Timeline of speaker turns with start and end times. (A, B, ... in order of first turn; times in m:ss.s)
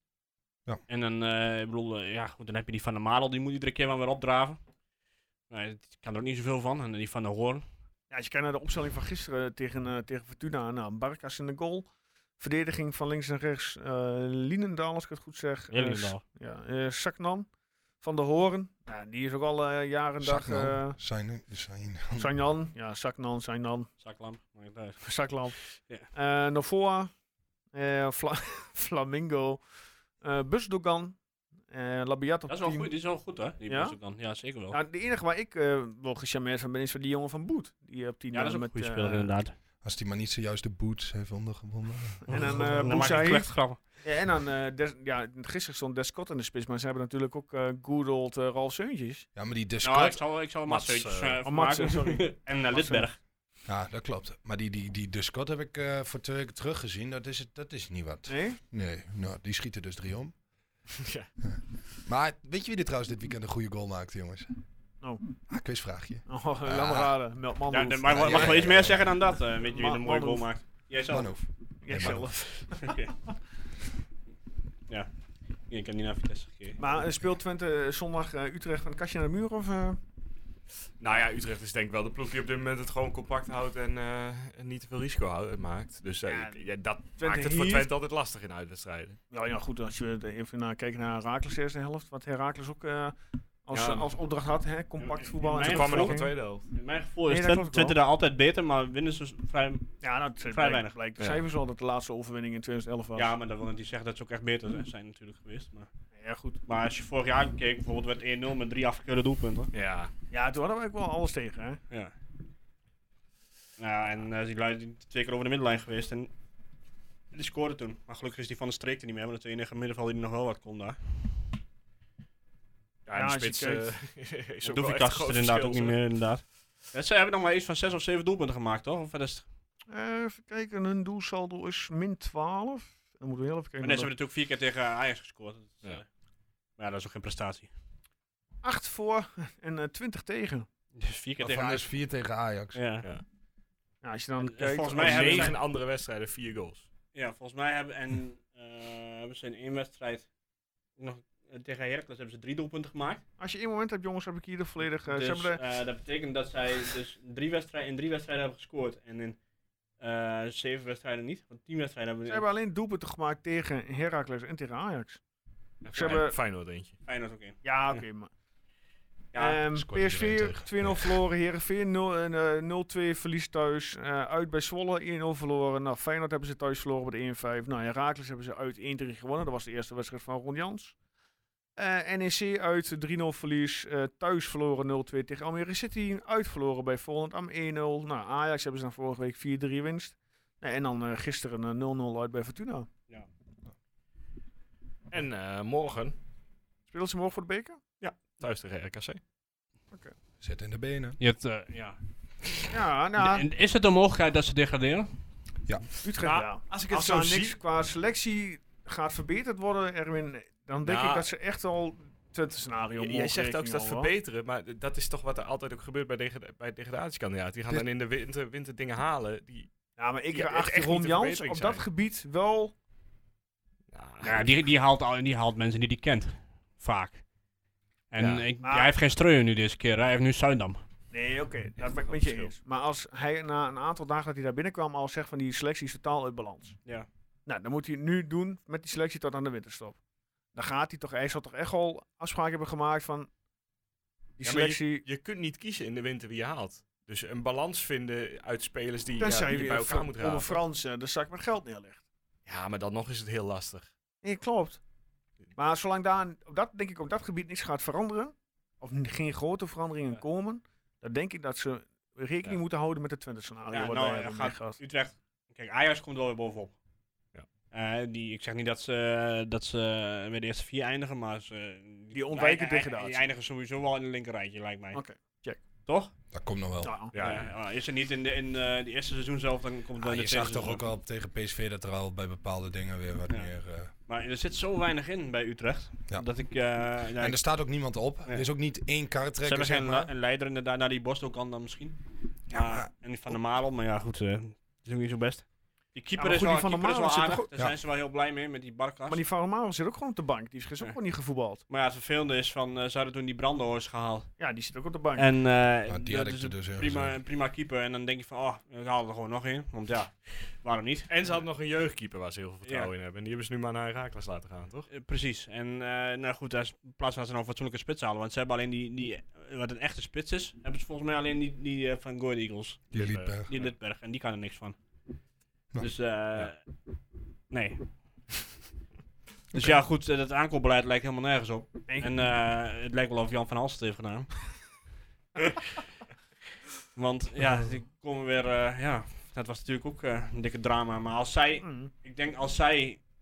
0:00.9-0:04.6 A
0:05.5-0:07.6 A
0:08.1-0:11.9 B
0:12.4-0:17.5 B
0:15.7-0:16.2 A
0:18.0-0:21.0 B
0:20.2-0:22.3 C
0:22.2-0:23.9 B
0:24.0-0:25.0 A
0:25.0-0:25.6 B
0:25.8-0:26.1 A
0:26.1-0:27.1 B
0:27.7-0:29.6 B
0:30.2-0:32.9 B
0:32.5-0:34.8 A
0:33.7-0:34.0 B
0:34.7-0:39.3 B
0:38.3-0:39.5 A
0:39.8-0:42.6 C
0:42.2-0:49.3 B
0:42.3-0:43.8 A
0:49.4-0:50.2 C
0:49.8-0:53.2 A
0:50.6-0:51.4 D
0:51.4-0:53.1 B
0:53.7-1:00.3 C
0:58.3-0:58.6 B
1:01.0-1:01.3 D
1:01.5-1:04.5 C
1:05.5-1:07.2 C
1:06.3-1:08.8 B
1:07.7-1:11.4 A
1:08.1-1:09.2 C
1:09.6-1:10.5 B
1:11.1-1:12.3 C
1:11.8-1:13.0 B
1:12.0-1:13.2 A
1:15.7-1:16.8 A
1:16.8-1:20.0 B
1:21.0-1:29.2 D
1:26.3-1:26.6 B
1:27.2-1:27.9 B
1:29.3-1:33.1 B
1:33.7-1:36.3 B
1:33.7-1:34.1 D
1:35.0-1:40.9 A
1:35.6-1:36.7 D
1:37.3-1:38.0 B
1:40.0-1:43.3 B
1:41.2-1:41.4 D
1:43.2-1:45.9 A
1:46.2-1:46.6 B
1:46.7-1:49.7 A
1:49.7-1:50.1 D
1:50.3-1:51.8 B
1:53.8-1:56.3 A
1:57.3-2:01.0 A
2:03.1-2:06.0 D
2:03.1-2:03.9 B
2:04.6-2:09.5 A
2:09.9-2:14.1 B
2:13.8-2:16.1 A
2:16.8-2:17.7 A
2:18.6-2:20.7 B
2:21.0-2:21.9 A
2:21.4-2:22.8 C
2:22.7-2:23.1 A
2:24.0-2:25.6 B
2:24.4-2:25.6 A
2:24.9-2:26.9 D
2:27.1-2:30.3 A
2:31.0-2:33.2 A
2:33.4-2:35.6 B
2:35.1-2:39.4 A
2:40.0-2:42.4 A
2:42.3-2:45.2 B
2:45.8-2:47.0 D
2:45.9-2:46.4 B
2:47.0-2:48.0 A
2:47.6-2:48.3 B
2:49.3-2:49.6 A
2:49.4-3:01.0 B
2:49.8-2:51.2 C
3:01.8-3:12.9 B
3:15.1-3:16.2 D
3:16.9-3:17.8 B
3:18.0-3:19.2 D
3:20.4-3:21.2 C
3:21.2-3:22.0 A
3:22.7-3:23.5 B
3:23.2-3:25.1 A
3:26.0-3:34.1 B
3:26.2-3:27.6 D
3:30.8-3:31.3 D
3:33.0-3:39.7 D
3:40.0-3:42.7 B
3:40.3-3:41.8 D
3:43.9-3:44.5 D
3:44.2-3:47.2 A
3:48.1-3:50.8 A
3:48.2-3:48.5 D
3:48.6-3:48.9 B
3:51.1-3:56.8 B
3:52.1-3:52.5 D
3:57.5-4:00.0 B
4:00.5-4:03.3 B
4:04.4-4:05.0 B
4:04.4-4:10.6 D
4:09.2-4:12.0 B
4:12.5-4:13.9 D
4:14.2-4:14.8 B
4:15.6-4:24.8 B
4:23.7-4:26.8 A
4:27.7-4:35.0 A
4:32.1-4:33.2 B
4:34.9-4:35.6 B
4:35.8-4:36.1 A
4:36.3-4:37.0 C
4:36.8-4:37.1 B
4:37.1-4:37.5 D
4:37.2-4:40.8 A
4:40.0-4:43.9 C
4:44.1-4:47.4 A
4:47.2-4:50.1 C
4:49.4-4:59.2 A
4:52.5-4:52.9 C
4:56.2-4:57.5 B
4:59.1-5:01.6 B
5:01.7-5:04.4 A
5:04.4-5:05.3 B
5:05.2-5:11.1 A
5:05.9-5:07.2 C
5:11.1-5:14.9 D
5:14.9-5:24.8 A
5:22.9-5:23.5 C
5:22.9-5:23.7 D
5:25.8-5:26.6 A
5:27.5-5:28.3 A
5:29.5-5:34.5 A
5:35.5-5:35.8 A
5:37.0-5:43.0 A
5:41.6-5:41.9 B